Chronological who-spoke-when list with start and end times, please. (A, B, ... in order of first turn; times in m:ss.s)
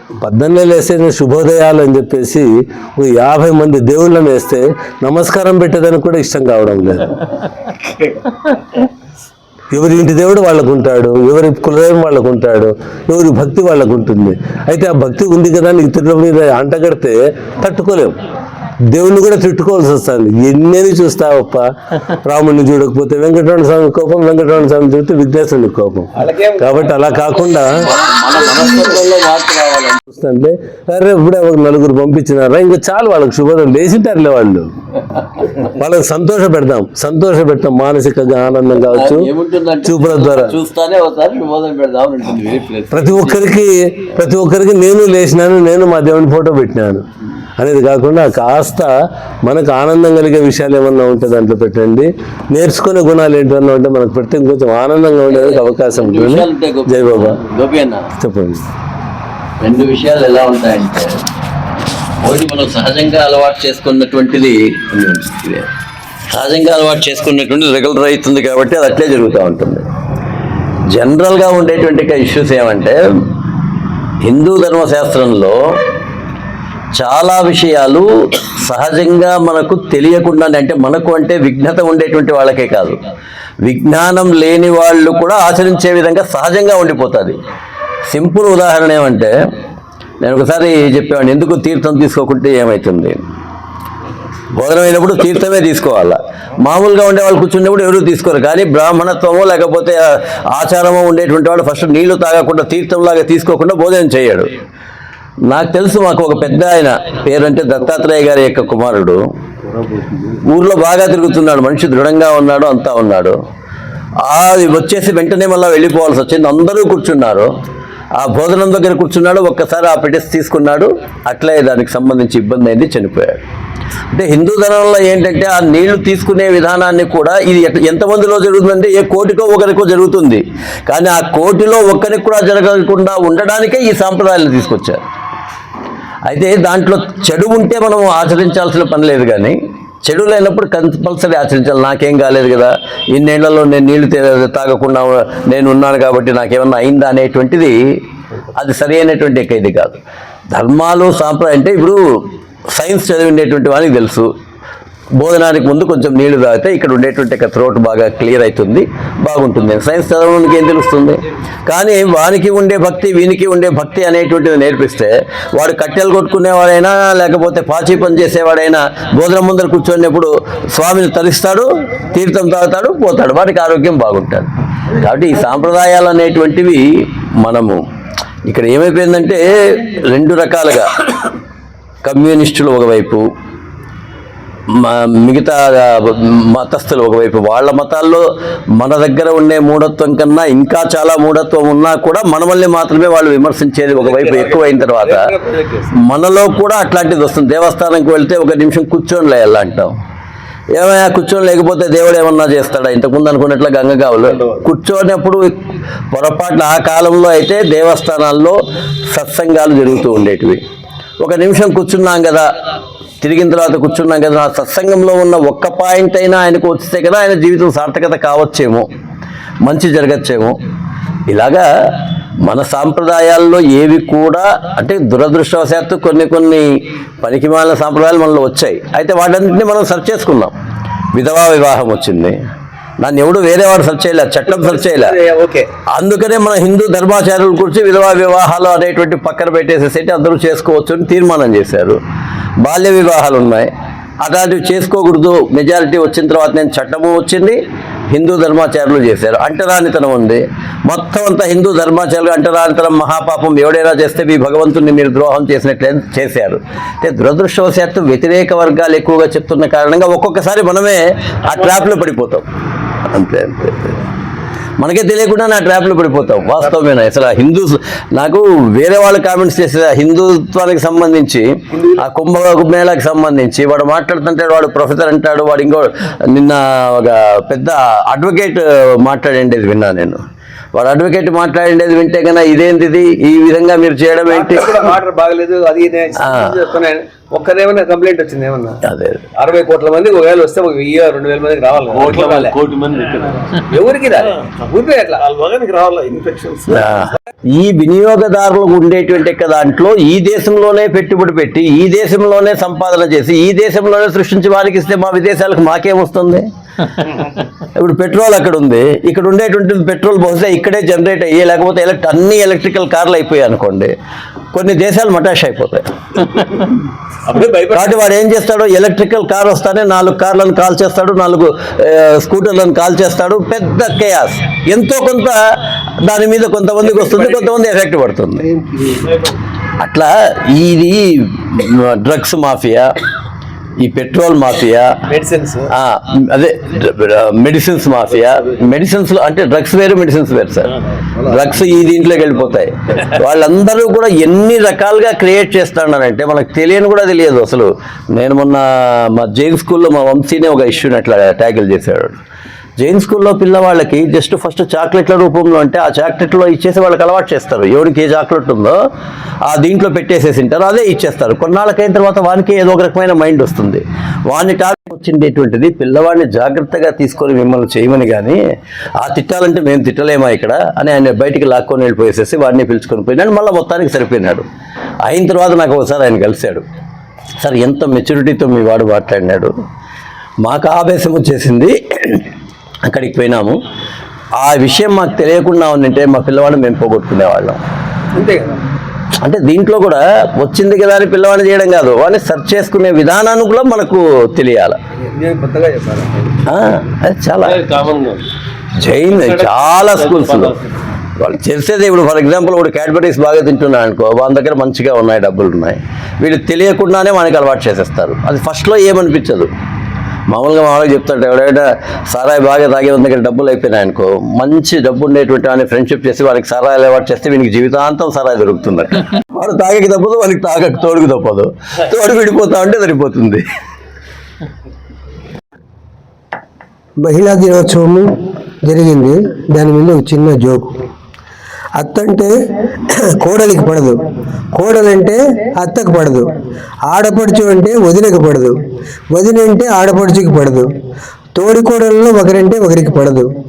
0:00.2-0:07.2 A
0:09.7-0:18.2 A
0:18.9-0:27.8 A
0:26.2-0:26.6 B
0:27.8-0:30.0 C
0:30.0-0:34.7 A
0:35.6-0:39.3 A
0:38.9-0:43.4 C
0:39.8-0:40.6 A
0:42.9-0:47.0 A
0:47.6-0:48.9 A
0:49.4-0:57.4 A
0:55.3-0:58.0 C
0:58.2-0:58.6 A
0:59.6-1:01.2 C
1:02.2-1:05.7 C
1:06.3-1:09.8 C
1:10.9-1:13.0 C
1:14.2-1:15.6 C
1:17.0-1:23.0 C
1:23.6-1:27.4 C
1:28.1-1:29.3 C
1:30.2-1:33.2 C
1:34.5-1:44.5 C
1:45.5-1:49.2 C
1:50.4-1:53.4 C
1:54.2-1:57.5 C
1:58.2-2:03.4 C
2:04.1-2:15.0 C
2:16.3-2:28.0 C
2:28.5-2:30.0 C
2:30.5-2:32.0 C
2:32.7-2:34.3 C
2:35.2-2:56.8 C
2:57.4-2:57.8 C
2:58.4-3:01.0 C
3:02.0-3:03.2 C
3:04.7-3:15.3 C
3:14.1-3:15.8 B
3:15.9-3:19.9 C
3:20.7-3:25.6 C
3:26.1-3:30.6 C
3:31.2-3:32.5 C
3:33.2-3:38.9 C
3:39.6-3:40.6 C
3:41.3-3:41.6 C
3:42.4-3:50.5 C
3:51.1-3:52.4 C
3:53.0-3:55.2 C
3:54.5-3:55.7 B
3:55.9-4:02.0 C
4:02.6-4:03.7 C
4:04.2-4:07.6 C
4:08.1-4:22.5 C
4:23.0-4:24.0 C
4:24.8-4:40.2 C
4:40.7-4:44.8 C
4:44.3-4:48.8 B
4:46.2-4:46.5 C
4:48.8-4:49.2 C
4:49.4-4:52.5 B
4:52.1-4:53.4 A
4:53.7-4:55.2 B
4:55.2-4:56.8 D
4:56.7-5:06.5 C
5:07.7-5:13.9 C
5:14.5-5:15.9 C
5:17.7-5:25.4 C
5:26.0-5:28.4 C
5:29.8-5:32.9 C
5:33.8-5:35.0 C
5:35.1-5:35.7 B
5:35.7-5:52.2 C
5:52.8-5:58.8 C
5:59.4-6:08.4 C
6:09.0-6:14.4 C
6:15.0-6:16.6 C
6:17.4-6:19.5 C
6:20.4-6:22.2 C
6:22.8-6:23.6 C
6:24.4-6:27.6 C
6:28.1-6:28.5 B
6:29.2-6:34.8 C
6:35.2-6:36.3 B
6:36.5-6:37.6 C
6:38.8-6:40.6 C
6:40.1-6:40.4 D
6:41.2-6:49.5 C
6:50.3-7:03.4 C
7:07.0-7:10.8 E
7:11.8-7:12.3 E
7:13.0-7:14.0 E
7:14.5-7:16.4 E
7:16.9-7:18.6 E
7:19.1-7:20.7 E
7:21.3-7:23.3 E